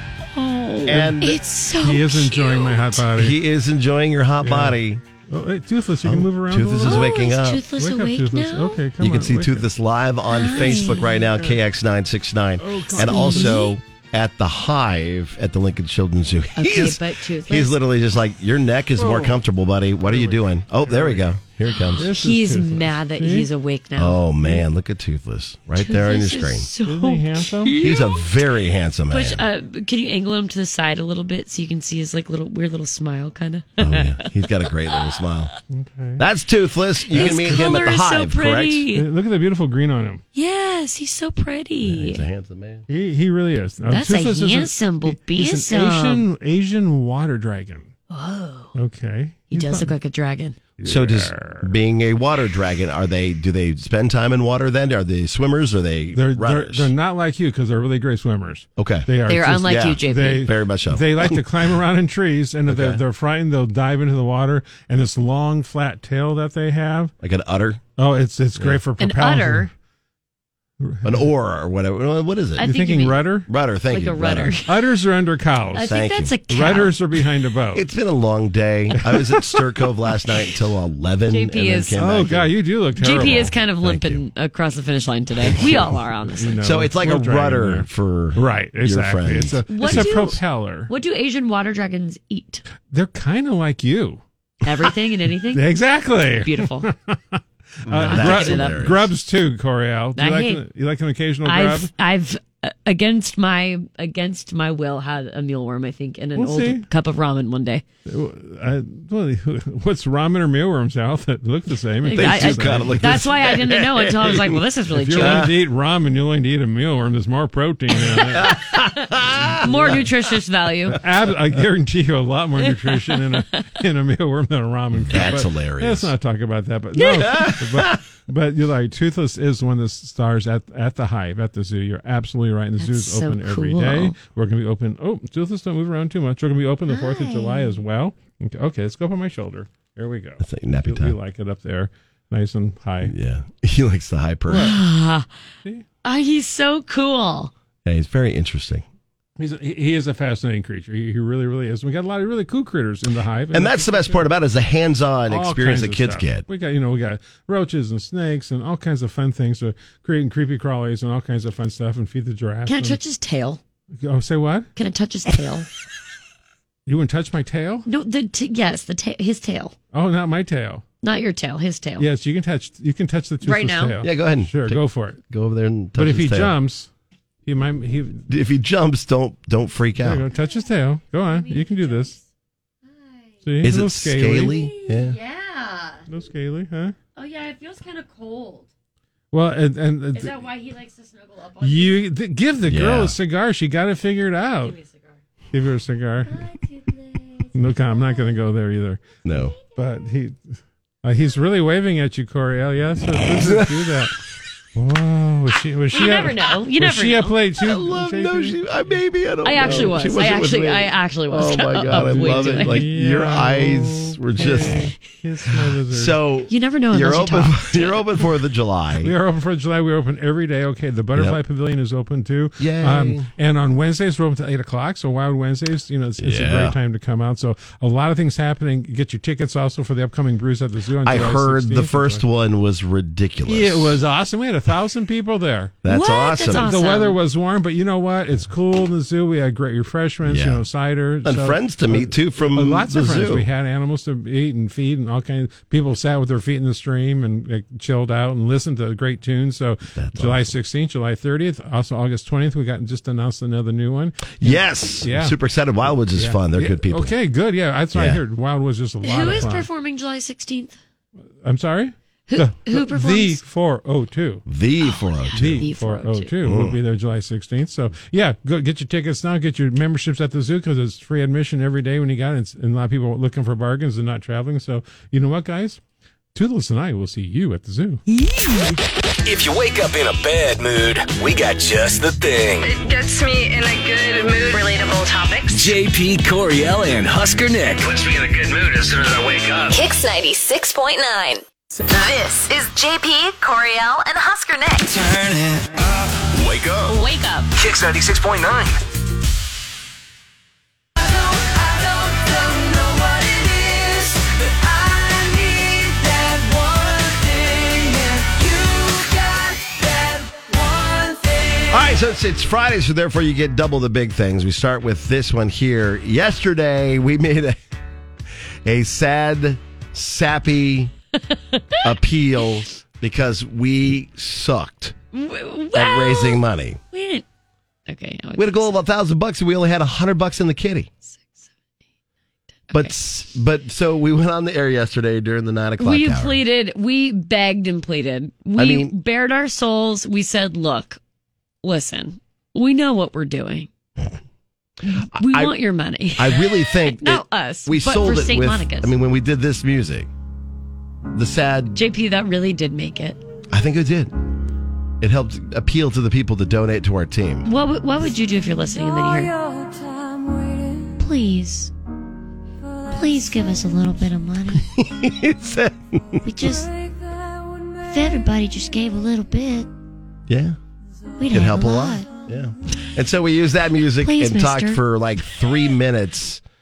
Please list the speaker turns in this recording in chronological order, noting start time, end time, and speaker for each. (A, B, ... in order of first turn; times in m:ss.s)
0:00.4-0:03.0 A
0:00.8-0:01.4 B
0:00.9-0:01.1 C
0:01.8-0:03.4 C
0:03.1-0:05.0 B
0:04.4-0:04.8 C
0:05.3-0:09.7 C
0:06.0-0:07.7 B
0:06.8-0:08.8 A
0:09.0-0:22.1 B
0:10.3-0:11.3 A
0:10.5-0:11.6 C
0:12.6-0:13.6 C
0:12.9-0:13.8 A
0:16.6-0:17.8 A
0:19.0-0:19.4 C
0:20.0-0:21.3 C
0:21.7-0:24.6 A
0:21.9-0:23.5 C
0:24.0-0:26.7 B
0:25.8-0:28.2 A
0:26.8-0:27.8 C
0:27.8-0:29.4 B
0:29.1-0:34.2 A
0:33.8-0:35.5 B
0:35.7-0:36.2 C
0:36.2-0:38.9 B
0:37.1-0:39.0 A
0:37.1-0:37.8 C
0:38.9-0:40.2 C
0:40.3-0:42.2 A
0:41.8-0:42.8 B
0:42.9-0:47.9 C
0:43.9-0:46.3 A
0:48.1-0:48.7 A
0:48.7-0:49.9 C
0:49.5-0:50.6 A
0:50.8-0:51.7 C
0:50.8-0:56.9 B
0:56.1-1:07.1 C
0:58.8-1:01.7 B
0:59.3-1:00.5 A
1:02.7-1:03.0 B
1:07.2-1:07.8 B
1:08.0-1:09.7 C
1:09.0-1:09.7 A
1:10.8-1:11.3 C
1:11.0-1:12.7 B
1:12.6-1:13.2 A
1:12.6-1:13.5 C
1:13.5-1:14.6 B
1:13.9-1:14.7 A
1:14.2-1:16.0 C
1:15.7-1:16.9 A
1:15.8-1:16.4 B
1:16.5-1:17.8 C
1:17.7-1:24.2 B
1:19.0-1:19.4 C
1:21.3-1:22.0 A
1:21.9-1:23.6 C
1:23.0-1:26.6 A
1:25.4-1:26.0 B
1:26.3-1:30.9 C
1:26.6-1:30.2 B
1:29.7-1:32.6 A
1:32.9-1:34.2 C
1:34.6-1:35.7 A
1:35.5-1:41.9 C
1:36.3-1:36.9 A
1:37.9-1:39.1 B
1:38.0-1:38.8 A
1:40.1-1:40.6 A
1:41.4-1:47.8 A
1:46.4-1:46.9 C
1:48.0-1:53.3 C
1:52.0-1:55.5 A
1:52.1-1:54.6 B
1:54.9-1:58.6 C
1:55.1-1:55.5 B
1:58.2-2:00.0 B
1:59.3-2:00.1 C
1:59.6-2:01.0 A
2:00.9-2:23.1 C
2:02.6-2:03.6 A
2:05.0-2:06.1 B
2:07.0-2:07.4 A
2:07.1-2:08.0 B
2:12.8-2:14.2 A
2:16.9-2:17.8 A
2:20.4-2:21.2 B
2:23.0-2:24.8 B
2:24.5-2:24.8 C
2:24.5-2:25.3 A
2:26.0-2:27.5 A
2:27.8-2:28.8 B
2:29.4-2:34.2 C
2:33.5-2:36.4 B
2:35.3-2:43.0 C
2:42.6-2:43.6 A
2:44.0-2:44.7 C
2:44.8-2:45.7 A
2:46.9-2:47.8 C
2:47.8-2:49.7 A
2:49.9-2:50.8 C
2:51.0-2:52.1 A
2:52.0-2:55.2 C
2:53.4-2:54.0 A
2:54.0-2:56.6 B
2:55.9-2:56.9 C
2:57.4-2:58.2 C
2:58.3-3:00.2 B
3:00.0-3:02.1 C
3:00.3-3:02.2 A
3:03.4-3:04.7 C
3:03.6-3:05.2 B
3:04.6-3:06.0 A
3:06.1-3:06.9 C
3:07.2-3:08.7 A
3:09.3-3:10.4 C
3:10.1-3:12.0 A
3:11.6-3:14.8 C
3:12.6-3:13.2 B
3:14.6-3:15.2 A
3:15.5-3:16.4 C
3:16.3-3:18.2 A
3:17.5-3:19.0 C
3:19.2-3:19.6 B
3:19.7-3:24.1 C
3:23.2-3:24.0 B
3:24.7-3:28.6 C
3:25.9-3:27.4 A
3:27.6-3:34.9 B
3:29.4-3:32.9 A
3:29.5-3:30.0 C
3:31.9-3:36.2 C
3:35.6-3:39.1 B
3:36.5-3:38.1 A
3:39.0-3:52.2 C
3:41.1-3:41.4 B
3:42.6-3:43.3 B
3:46.2-3:46.8 B
3:51.0-3:54.0 B
3:53.5-3:55.8 C
3:55.8-3:56.8 B
3:55.9-3:57.2 A
3:56.5-4:15.4 C
4:00.2-4:00.6 B
4:01.2-4:03.5 B
4:09.9-4:10.6 B
4:14.4-4:17.2 B
4:16.1-4:19.7 C
4:17.9-4:18.2 B
4:19.0-4:20.8 A
4:21.4-4:24.4 C
4:22.3-4:23.4 A
4:24.5-4:25.7 B
4:24.9-4:26.3 A
4:25.3-4:35.8 C
4:26.4-4:26.8 B
4:36.3-4:38.0 C
4:38.1-4:38.8 A
4:39.2-4:42.7 D
4:42.6-4:45.5 E
4:45.5-4:47.9 D
4:49.7-4:55.0 F
4:56.3-4:56.9 D
4:56.9-4:57.4 A
4:57.6-4:58.8 D
5:11.7-5:17.6 B
5:18.6-5:20.9 B
5:21.5-5:21.8 A
5:21.8-5:24.9 B
5:25.1-5:26.4 A
5:25.7-5:26.8 B
5:26.9-5:27.2 A
5:27.9-5:28.7 A
5:28.4-5:30.9 B
5:32.7-5:36.4 B
5:35.8-5:41.0 A
5:38.6-5:38.9 B
5:41.6-5:43.7 A
5:45.0-5:45.6 B
5:45.2-5:48.9 A
5:46.2-5:50.1 B
5:51.1-5:51.8 B
5:51.7-5:53.2 A
5:53.5-5:54.1 B
5:55.0-5:57.5 B
5:57.4-5:59.3 A
6:01.0-6:01.7 A
6:02.9-6:04.6 A
6:04.5-6:06.2 B
6:06.2-6:06.7 A
6:07.8-6:09.7 A
6:10.3-6:10.6 B
6:11.2-6:12.1 A
6:11.3-6:16.4 B
6:14.0-6:14.8 A